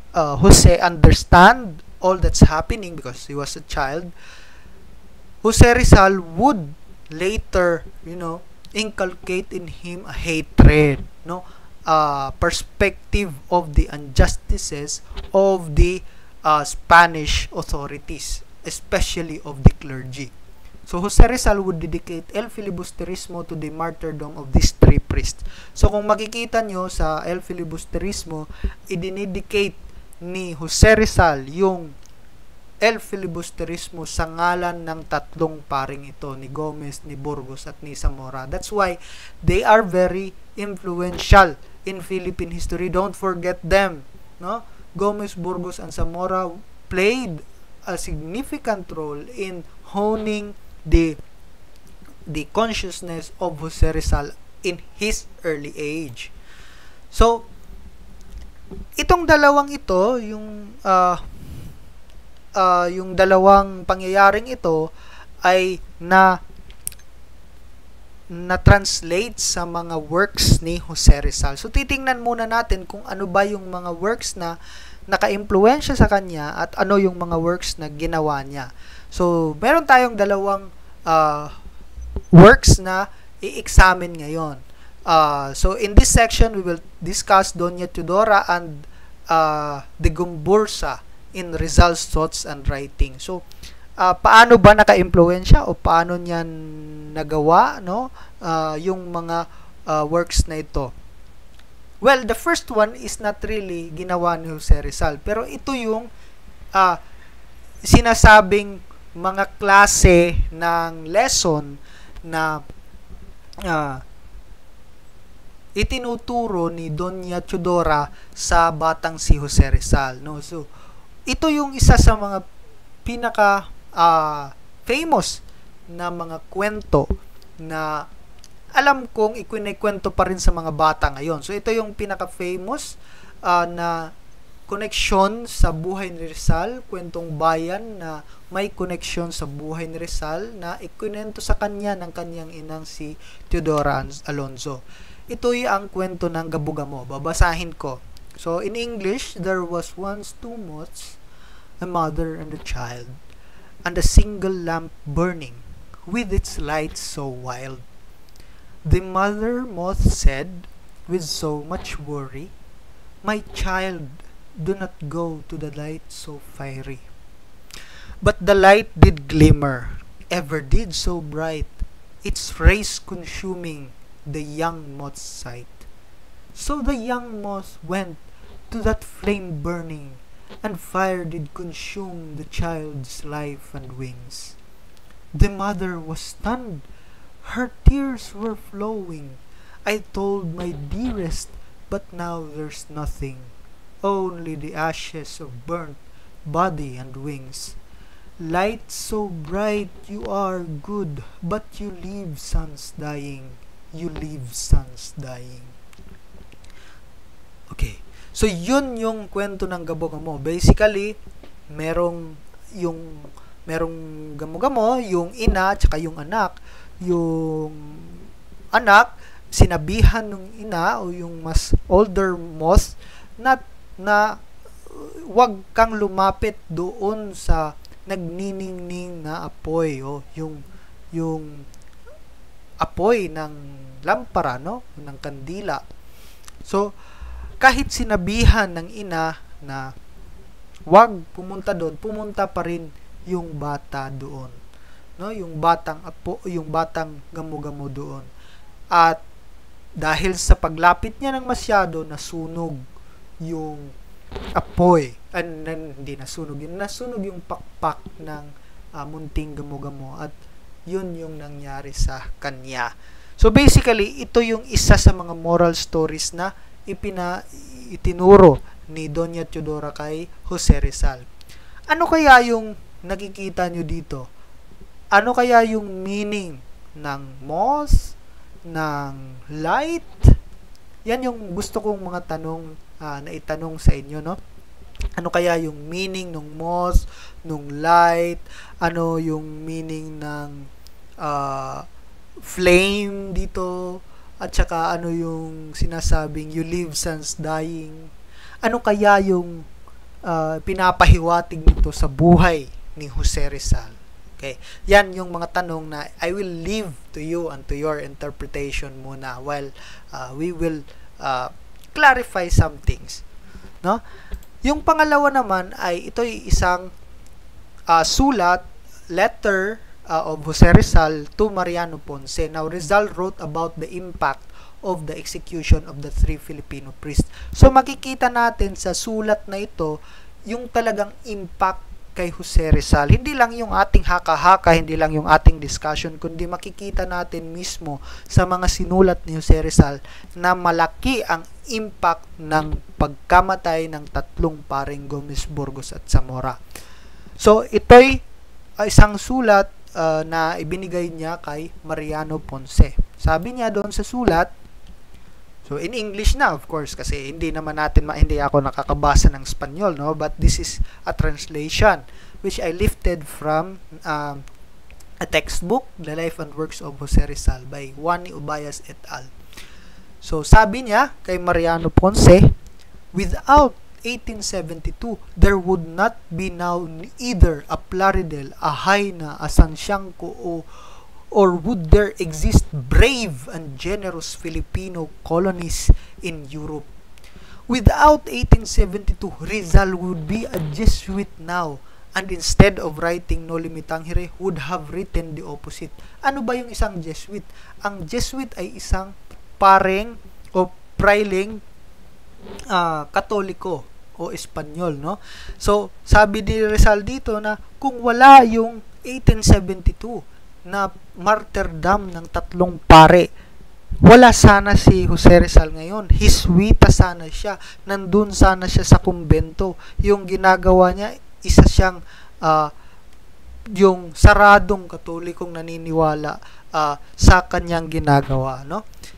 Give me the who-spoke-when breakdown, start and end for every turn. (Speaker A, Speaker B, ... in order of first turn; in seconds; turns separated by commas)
Speaker A: 0.1-4.1, Speaker A: 5.4-20.3, Speaker A: 20.9-31.9, Speaker A: 32.8-51.2, Speaker A: 52.3-56.3, Speaker A: 57.1-57.5, Speaker A: 59.0-61.2, Speaker A: 62.6-64.9, Speaker A: 65.4-66.4, Speaker A: 68.3-74.6, Speaker A: 75.1-81.5, Speaker A: 82.3-93.4, Speaker A: 94.0-100.9, Speaker A: 102.0-106.1, Speaker A: 107.9-112.6, Speaker A: 113.6-114.0, Speaker A: 115.8-120.7, Speaker A: 121.3-122.5, Speaker A: 123.0-127.1, Speaker A: 127.6-128.1, Speaker A: 128.8-134.1, Speaker A: 134.7-151.2, Speaker A: 151.8-153.2, Speaker A: 153.8-157.8, Speaker A: 158.8-162.5, Speaker A: 163.2-167.1, Speaker A: 168.2-175.9, Speaker A: 176.6-184.6, Speaker A: 185.3-186.9, Speaker A: 187.4-197.8, Speaker A: 198.4-205.8, Speaker A: 207.7-211.2, Speaker A: 211.7-230.6, Speaker A: 231.1-231.7, Speaker A: 232.8-235.8, Speaker A: 236.7-236.9, Speaker A: 237.6-239.9, Speaker A: 240.9-244.6, Speaker A: 245.2-248.3, Speaker A: 248.9-249.2, Speaker A: 250.0-252.8, Speaker A: 253.4-253.9, Speaker A: 254.6-260.4, Speaker A: 260.9-271.2, Speaker A: 271.9-274.3, Speaker A: 275.1-278.1, Speaker A: 278.7-280.4, Speaker A: 281.1-284.4, Speaker A: 285.2-290.7, Speaker A: 291.2-291.9, Speaker A: 292.4-298.1, Speaker A: 298.6-299.6, Speaker A: 300.3-313.2, Speaker A: 314.6-316.9, Speaker A: 317.9-330.0, Speaker A: 330.5-346.6, Speaker A: 347.4-348.2, Speaker A: 348.8-354.5, Speaker A: 355.6-364.4, Speaker A: 365.2-369.3, Speaker A: 370.2-372.5, Speaker A: 373.1-380.7, Speaker A: 381.3-386.9, Speaker A: 387.7-401.6, Speaker A: 402.7-413.3, Speaker A: 414.0-422.7, Speaker A: 423.7-428.8